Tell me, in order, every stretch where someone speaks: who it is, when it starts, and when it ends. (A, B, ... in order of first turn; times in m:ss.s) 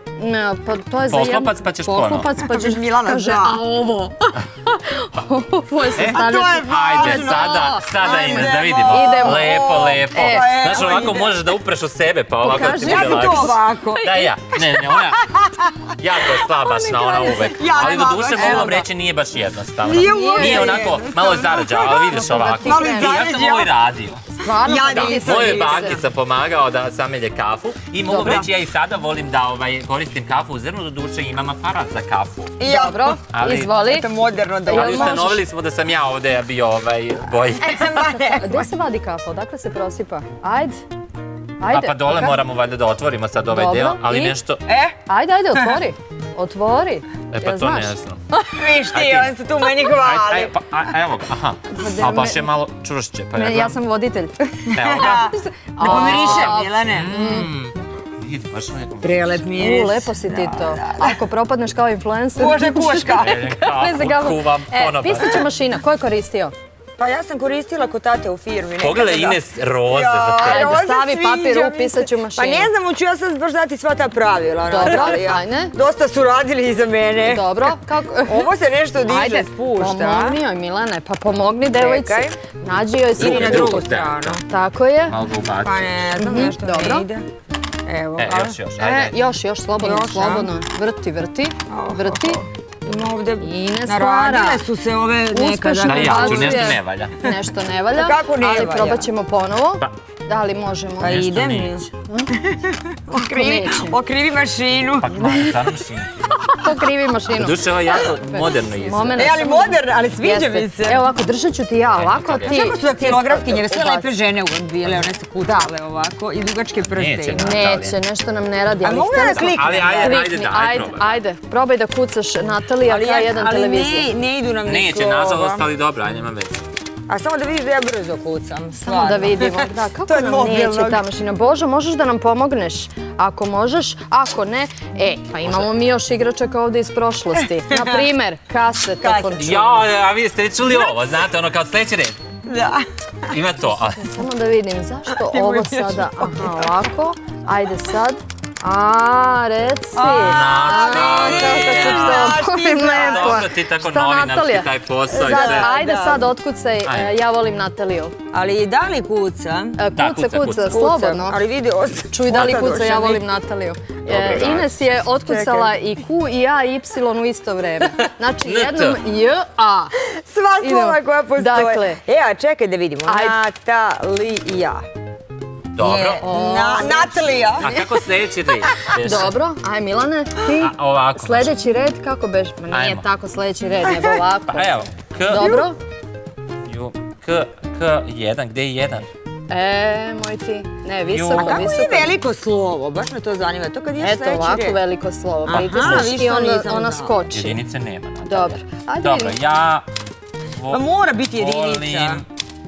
0:00.2-0:10.5 A
0:01.1-0:02.3 B
0:02.4-0:03.6 C
0:06.0-0:15.3 B
0:06.1-0:11.3 C
0:12.4-0:13.5 A
0:12.5-0:14.1 C
0:15.0-0:15.7 C
0:16.0-0:24.2 B
0:16.6-0:18.8 A
0:17.5-0:18.8 C
0:19.8-0:21.7 C
0:20.0-0:20.9 A
0:21.7-0:23.2 A
0:22.6-0:23.7 C
0:24.4-0:26.0 A
0:24.6-0:26.0 C
0:24.8-0:32.6 B
0:28.0-0:28.4 A
0:28.2-0:28.5 C
0:32.6-0:33.2 C
0:32.7-0:34.1 A
0:33.3-0:33.7 B
0:33.8-0:35.3 C
0:34.7-0:35.4 A
0:34.7-0:38.0 B
0:37.6-0:38.7 C
0:38.4-0:40.8 A
0:41.6-0:42.4 A
0:41.7-0:44.6 B
0:43.5-0:44.3 A
0:44.7-0:45.0 C
0:45.1-0:48.6 A
0:47.3-0:48.2 B
0:48.5-0:50.6 C
0:48.9-0:49.3 B
0:50.0-0:53.8 B
0:51.7-0:52.4 A
0:53.3-0:57.5 A
0:54.7-0:55.2 B
0:54.8-0:57.1 C
0:55.8-0:59.4 B
0:59.0-1:01.1 C
0:59.6-1:06.5 A
1:02.4-1:03.4 C
1:03.2-1:05.4 B
1:07.0-1:17.7 C
1:08.8-1:10.7 B
1:10.4-1:12.7 A
1:14.6-1:15.7 A
1:17.2-1:18.5 A
1:18.3-1:20.4 C
1:19.0-1:25.1 A
1:21.7-1:22.4 C
1:23.2-1:24.4 B
1:23.2-1:24.4 C
1:25.1-1:26.0 B
1:25.6-1:27.2 C
1:26.2-1:27.0 A
1:27.8-1:28.6 C
1:28.2-1:29.1 B
1:28.8-1:32.4 A
1:29.8-1:30.5 C
1:31.7-1:36.8 C
1:33.4-1:34.6 A
1:35.3-1:41.3 A
1:35.8-1:37.2 B
1:37.9-1:39.1 C
1:41.0-1:45.1 C
1:41.0-1:41.8 B
1:43.1-1:44.0 A
1:45.0-1:46.2 B
1:46.5-1:54.1 A
1:47.3-1:49.3 B
1:49.2-1:51.0 C
1:51.9-1:52.6 B
1:52.5-1:57.6 C
1:56.8-1:58.0 B
1:57.4-2:04.1 A
1:58.8-2:00.3 C
1:59.3-2:01.2 B
2:02.8-2:05.7 C
2:04.6-2:06.6 B
2:07.1-2:11.0 C
2:08.8-2:19.8 A
2:17.5-2:18.1 C
2:19.0-2:19.5 C
2:19.4-2:22.2 B
2:22.4-2:23.4 C
2:23.3-2:24.1 B
2:24.0-2:38.1 A
2:25.1-2:26.8 C
2:29.9-2:33.5 C
2:30.2-2:35.7 B
2:35.1-2:36.3 C
2:36.8-2:37.1 B
2:38.3-2:39.8 C
2:39.8-2:41.4 A
2:40.0-2:40.7 B
2:40.6-2:43.2 C
2:42.1-2:49.9 A
2:44.0-2:44.8 B
2:45.2-2:45.7 C
2:48.4-2:49.0 B
2:50.0-2:54.8 C
2:50.6-2:52.0 A
2:53.0-2:53.4 A
2:55.8-2:56.2 B
2:55.8-2:57.7 C
2:56.2-2:57.8 A
2:57.6-2:59.3 B
2:59.0-3:05.8 A
3:00.6-3:01.5 B
3:02.7-3:03.0 B
3:04.5-3:05.5 B
3:05.4-3:05.6 C
3:06.6-3:09.1 B
3:09.5-3:12.1 A
3:11.1-3:11.6 B
3:11.3-3:14.8 C
3:14.0-3:17.6 A
3:15.5-3:17.2 C
3:15.5-3:16.1 B
3:17.3-3:19.8 B
3:18.2-3:19.4 A
3:20.6-3:20.8 B
3:20.7-3:22.2 C
3:21.4-3:22.2 B